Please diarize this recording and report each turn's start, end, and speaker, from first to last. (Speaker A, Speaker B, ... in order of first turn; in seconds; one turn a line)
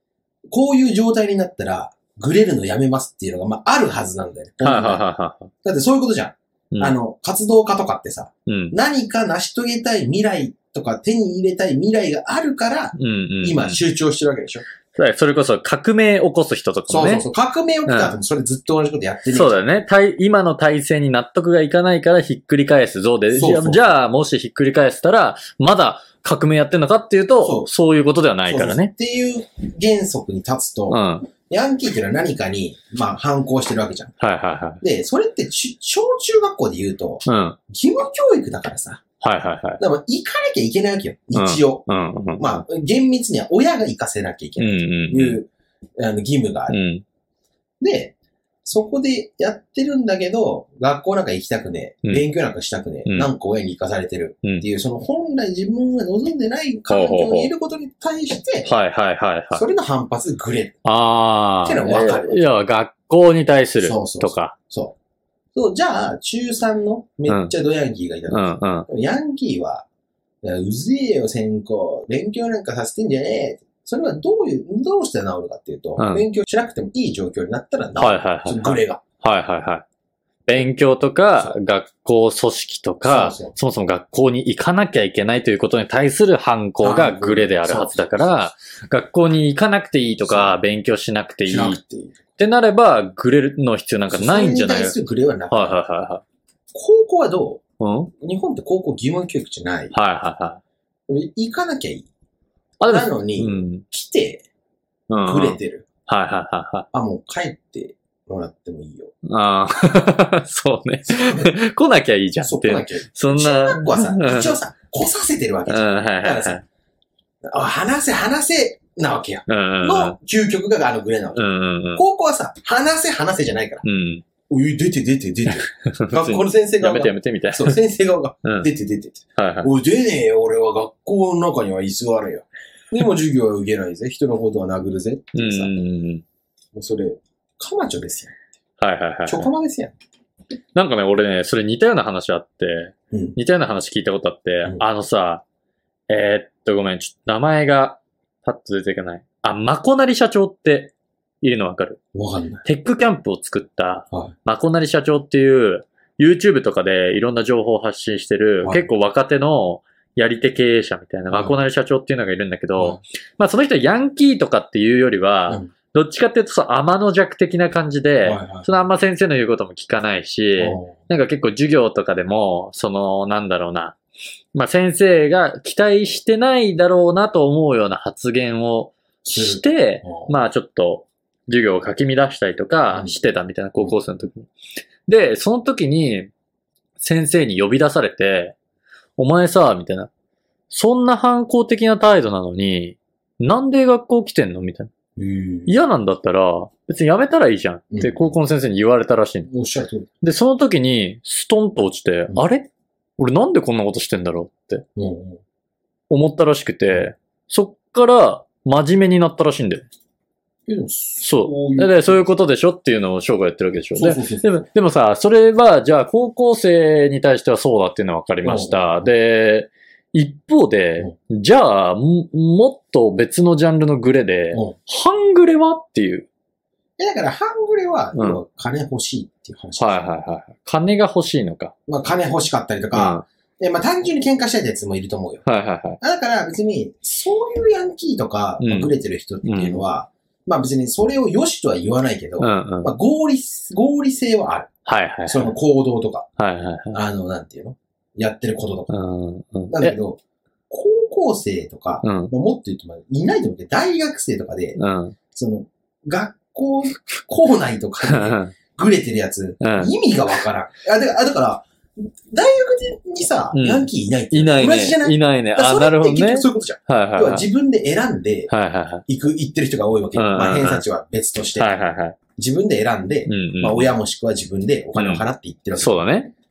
Speaker A: 0.5-5.0
Speaker B: 4.6-5.5
Speaker A: 5.6-14.7
Speaker B: 6.7-7.0
Speaker B: 8.5-8.7
Speaker B: 12.9-13.8
Speaker B: 14.9-17.2
Speaker A: 16.9-19.6
Speaker B: 17.9-18.1
Speaker B: 19.3-28.9
Speaker A: 23.3-23.9
Speaker A: 27.4-27.7
Speaker A: 28.5-34.1
Speaker B: 30.9-31.3
Speaker B: 34.2-34.8
Speaker A: 34.8-39.0
Speaker B: 37.2-37.6
Speaker B: 39.2-39.8
Speaker A: 39.8-41.9
Speaker B: 41.3-42.6
Speaker A: 42.4-46.8
Speaker B: 44.6-45.4
Speaker B: 46.7-47.0
Speaker A: 47.8-48.1
Speaker A: 48.6-58.7
Speaker B: 53.1-53.3
Speaker B: 56.9-57.5
Speaker B: 58.6-59.6
Speaker A: 59.5-60.8
Speaker B: 60.9-64.5
Speaker A: 61.6-62.5
Speaker A: 63.8-64.9
Speaker A: 65.5-69.8
Speaker B: 67.3-67.5
Speaker B: 68.3-68.9
Speaker A: 70.4-79.0
Speaker B: 76.0-76.2
Speaker B: 78.0-79.8
Speaker B: 80.5-91.8
Speaker A: 83.0-83.5
Speaker A: 86.8-88.5
Speaker A: 90.2-90.6
Speaker A: 91.5-92.2
Speaker B: 92.4-95.0
Speaker A: 94.1-95.8
Speaker B: 95.5-96.2
Speaker A: 96.7-97.6
Speaker B: 97.8-98.1
Speaker A: 98.2-99.9
Speaker B: 99.9-100.6
Speaker A: 101.1-102.1
Speaker B: 102.8-103.8
Speaker A: 102.8-104.4
Speaker B: 105.1-106.9
Speaker A: 105.2-105.9
Speaker A: 106.9-109.1
Speaker B: 109.2-114.6
Speaker A: 111.0-111.5
Speaker A: 112.4-116.6
Speaker B: 115.7-116.6
Speaker A: 117.4-121.4
Speaker B: 119.5-120.2
Speaker B: 121.4-122.0
Speaker A: 121.9-123.8
Speaker B: 123.8-124.2
Speaker A: 124.5-135.7
Speaker B: 125.9-127.8
Speaker B: 128.4-128.7
Speaker B: 129.4-129.7
Speaker B: 135.4-136.2
Speaker A: 136.7-138.4
Speaker B: 138.8-139.5
Speaker A: 139.2-139.9
Speaker B: 140.8-145.4
Speaker A: 143.1-143.4
Speaker B: 146.1-152.0
Speaker A: 152.1-152.7
Speaker B: 152.6-174.0
Speaker A: 161.3-161.6
Speaker A: 168.2-168.7
Speaker A: 170.6-170.9
Speaker B: 174.5-184.5
Speaker A: 179.2-180.3
Speaker B: 185.1-186.3
Speaker B: 187.0-188.6
Speaker B: 189.2-190.1
Speaker B: 190.7-194.9
Speaker A: 195.2-195.8
Speaker B: 195.7-199.5
Speaker A: 197.9-198.3
Speaker A: 199.5-200.1
Speaker B: 200.2-204.8
Speaker A: 205.0-205.4
Speaker B: 206.1-209.9
Speaker A: 210.7-212.3
Speaker B: 211.2-226.3
Speaker A: 214.0-214.7
Speaker A: 218.4-219.1
Speaker A: 227.0-230.0
Speaker B: 228.2-228.4
Speaker B: 229.8-231.7
Speaker A: 231.9-235.4
Speaker B: 232.9-233.3
Speaker B: 235.5-236.0
Speaker A: 236.0-244.7
Speaker B: 238.6-239.8
Speaker B: 242.4-242.9
Speaker B: 244.9-245.6
Speaker A: 245.3-246.3
Speaker B: 246.4-247.0
Speaker A: 246.9-248.9
Speaker B: 248.9-250.0
Speaker A: 249.7-254.8
Speaker B: 252.0-252.3
Speaker B: 254.8-255.1
Speaker A: 255.3-268.5
Speaker B: 258.0-258.5
Speaker B: 259.6-259.9
Speaker B: 263.5-267.5
Speaker B: 268.5-269.1
Speaker A: 269.1-271.8
Speaker B: 270.1-270.8
Speaker B: 271.6-272.2
Speaker A: 272.4-276.0
Speaker B: 273.3-273.9
Speaker B: 275.0-275.2
Speaker B: 275.8-276.3